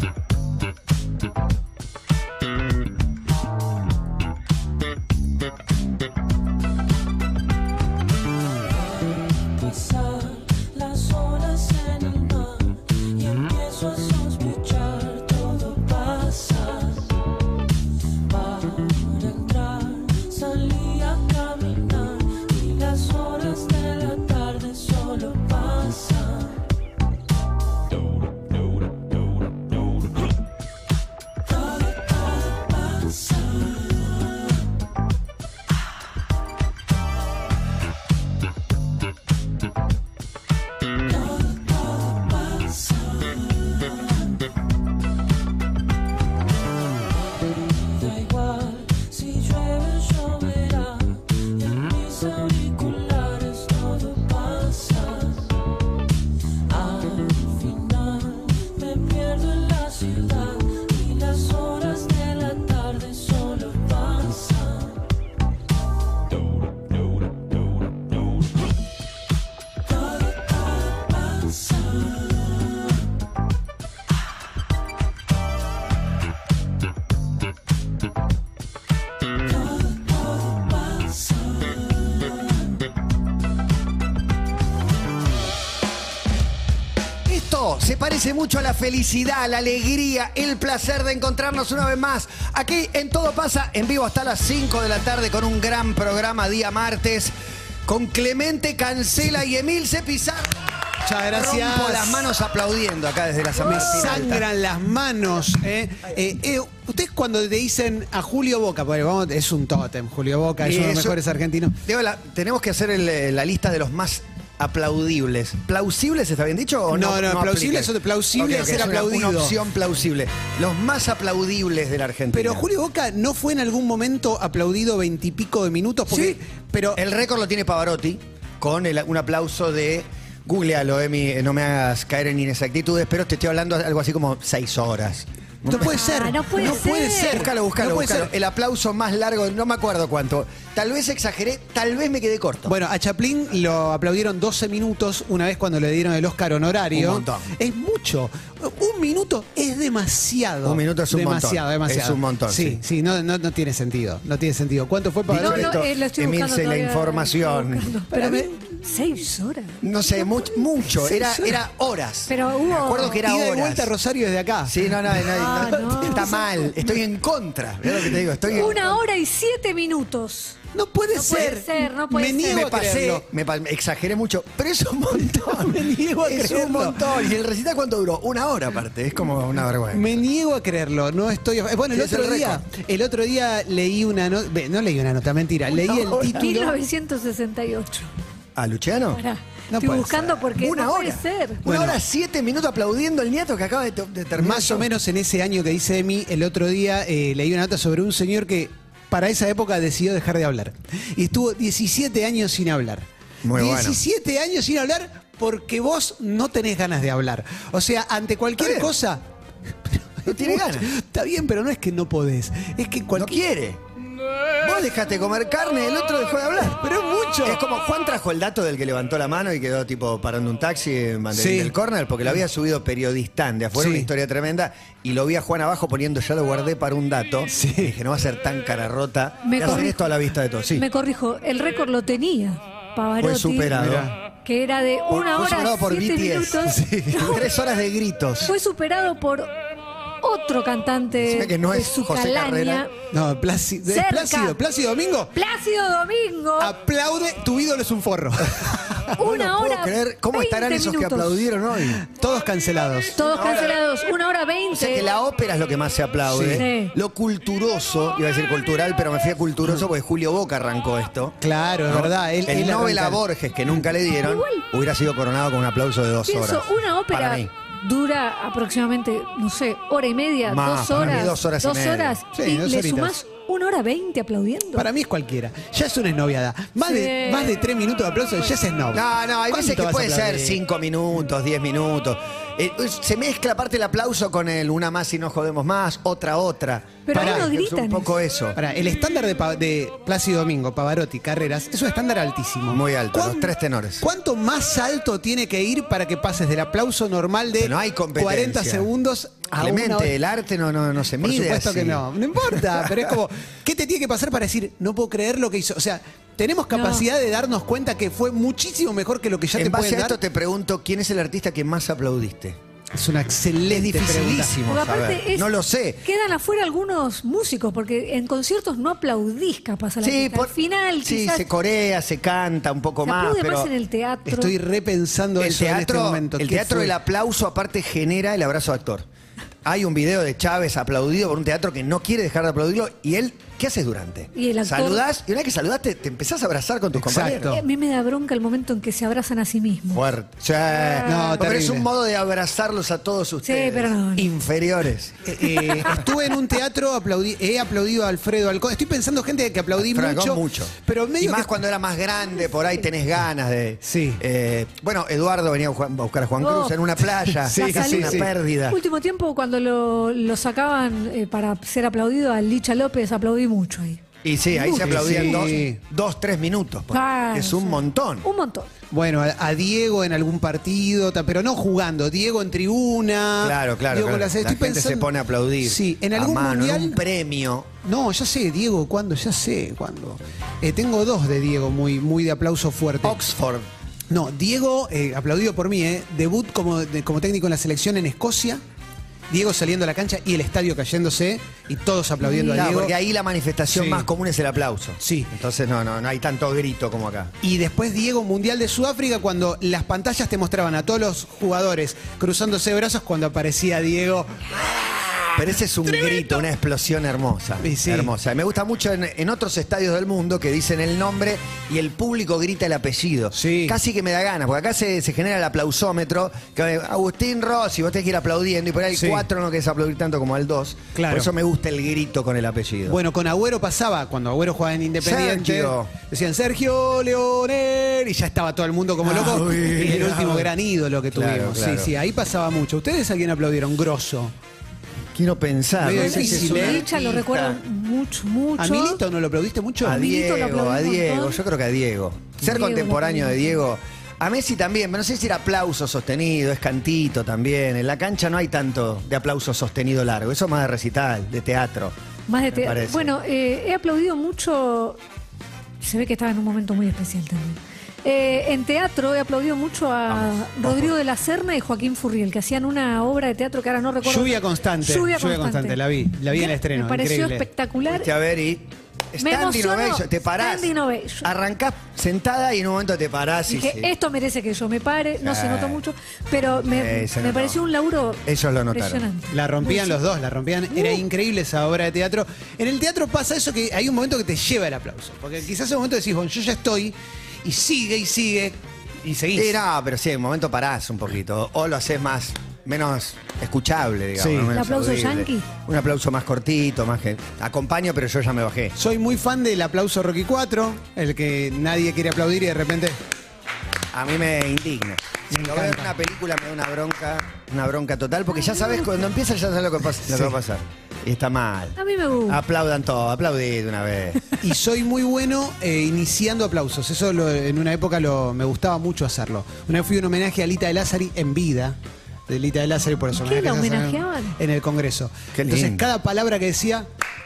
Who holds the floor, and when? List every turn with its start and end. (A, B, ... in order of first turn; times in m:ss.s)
0:08.7-0:17.1 A
0:18.2-0:26.6 A
0:31.5-0:34.0 A
0:41.1-0:44.2 A
0:47.3-0:55.5 A
0:56.7-1:05.0 A
1:09.9-1:12.4 A
1:19.6-1:21.7 A
1:27.2-1:37.3 B
1:37.8-1:40.6 B
1:41.0-1:42.3 C
1:41.2-1:44.5 B
1:43.6-1:51.8 C
1:50.6-1:51.2 B
1:51.8-2:02.7 B
1:56.9-1:59.6 C
2:02.3-2:07.0 C
2:06.1-2:06.4 B
2:06.9-2:22.7 B
2:15.7-2:18.3 C
2:15.7-2:17.4 D
2:22.7-2:35.7 C
2:26.9-2:27.5 B
2:30.6-2:32.8 B
2:35.3-2:37.9 B
2:35.3-2:40.6 D
2:38.1-2:38.9 C
2:39.8-2:43.9 B
2:41.1-2:41.5 C
2:42.3-2:43.2 D
2:43.0-2:46.4 C
2:44.6-2:49.0 B
2:45.3-2:46.8 D
2:48.5-2:50.6 D
2:50.7-2:53.3 C
2:51.1-2:52.7 D
2:52.4-3:00.2 B
2:55.3-2:57.2 C
2:59.9-3:06.8 C
3:01.9-3:02.6 B
3:05.7-3:08.1 D
3:08.6-3:09.2 B
3:09.2-3:11.6 D
3:09.7-3:10.4 C
3:10.5-3:14.9 B
3:11.6-3:12.0 C
3:14.4-3:29.2 C
3:23.4-3:24.0 B
3:28.6-3:28.9 B
3:29.8-3:33.4 C
3:30.2-3:30.9 B
3:33.1-3:33.8 B
3:34.6-3:36.8 B
3:36.7-3:37.6 C
3:37.4-3:50.9 B
3:41.3-3:41.7 C
3:43.8-3:44.1 C
3:47.5-3:47.9 C
3:49.4-3:50.1 D
3:50.7-3:53.7 D
3:53.2-3:54.1 B
3:53.7-3:54.1 C
3:54.4-3:57.4 D
3:55.1-3:58.5 B
3:56.7-3:57.4 C
3:58.4-3:59.5 D
4:00.2-4:02.9 D
4:01.2-4:02.8 B
4:03.1-4:05.3 C
4:03.9-4:04.6 D
4:05.3-4:06.8 D
4:06.6-4:09.2 C
4:09.2-4:11.5 D
4:09.2-4:12.0 B
4:12.0-4:13.2 C
4:13.2-4:15.1 D
4:13.2-4:13.8 B
4:14.7-4:27.5 B
4:16.3-4:16.6 C
4:16.5-4:16.9 D
4:21.4-4:23.2 C
4:24.1-4:24.6 D
4:26.3-4:34.9 D
4:30.4-4:32.2 B
4:32.3-4:33.2 C
4:34.8-4:40.6 C
4:36.8-4:37.6 D
4:38.9-4:48.6 B
4:47.1-4:48.1 D
4:47.1-4:47.4 C
4:48.6-5:00.1 C
4:52.7-4:54.1 B
4:57.6-4:58.9 B
4:59.5-5:03.1 B
5:01.2-5:10.2 C
5:06.7-5:07.0 D
5:09.6-5:12.6 B
5:12.9-5:14.6 C
5:13.7-5:16.0 B
5:14.7-5:15.5 D
5:16.0-5:21.5 D
5:20.0-5:23.7 B
5:23.1-5:24.6 D
5:24.2-5:26.9 C
5:25.4-5:29.1 B
5:29.6-5:37.6 B
5:34.4-5:35.0 D
5:36.9-5:37.6 C
5:37.5-5:40.0 D
5:39.9-5:46.0 B
5:40.8-5:41.4 D
5:41.0-5:41.9 C
5:43.4-5:44.3 D
5:45.2-5:51.5 C
5:49.8-5:58.8 B
5:53.8-5:54.2 C
5:56.4-5:56.8 D
5:57.4-5:58.3 C
5:57.5-6:05.6 D
6:04.2-6:08.2 B
6:04.7-6:05.8 C
6:06.9-6:08.7 D
6:08.9-6:15.1 C
6:13.4-6:17.7 B
6:15.6-6:17.0 C
6:17.8-6:23.2 C
6:23.0-6:23.7 B
6:24.1-6:28.6 C
6:29.3-6:32.9 C
6:32.3-6:32.6 D
6:32.5-6:37.3 B
6:33.7-6:34.1 C
6:35.0-6:35.3 C
6:37.4-6:45.3 C
6:45.3-7:03.0 B
6:47.6-6:48.1 C
6:53.3-6:53.8 C
6:58.9-6:59.2 C
7:00.9-7:01.3 C
7:02.9-7:14.3 C
7:05.0-7:05.9 B
7:09.0-7:10.5 B
7:11.1-7:11.9 B
7:15.1-7:17.6 B
7:15.8-7:16.8 C
7:15.9-7:19.0 D
7:18.6-7:20.0 C
7:19.8-7:32.0 B
7:19.8-7:21.4 D
7:22.4-7:23.6 D
7:32.3-7:35.0 D
7:32.5-7:33.1 B
7:35.8-7:48.1 D
7:40.1-7:41.0 B
7:44.0-7:47.4 C
7:47.9-7:50.7 B
7:49.2-7:51.3 D
7:51.2-7:53.9 B
7:53.5-8:00.0 D
7:55.2-7:55.8 B
7:56.7-7:57.6 B
7:58.2-7:59.1 B
7:59.3-8:09.6 C
8:00.7-8:01.0 D
8:09.3-8:18.8 B
8:14.2-8:14.5 C
8:14.5-8:15.5 D
8:18.8-8:23.0 C
8:23.9-8:34.2 B
8:25.3-8:26.0 C
8:28.3-8:28.9 D
8:31.8-8:32.4 D
8:34.4-8:41.8 C
8:42.3-8:46.9 C
8:43.1-8:44.4 D
8:45.3-8:45.9 B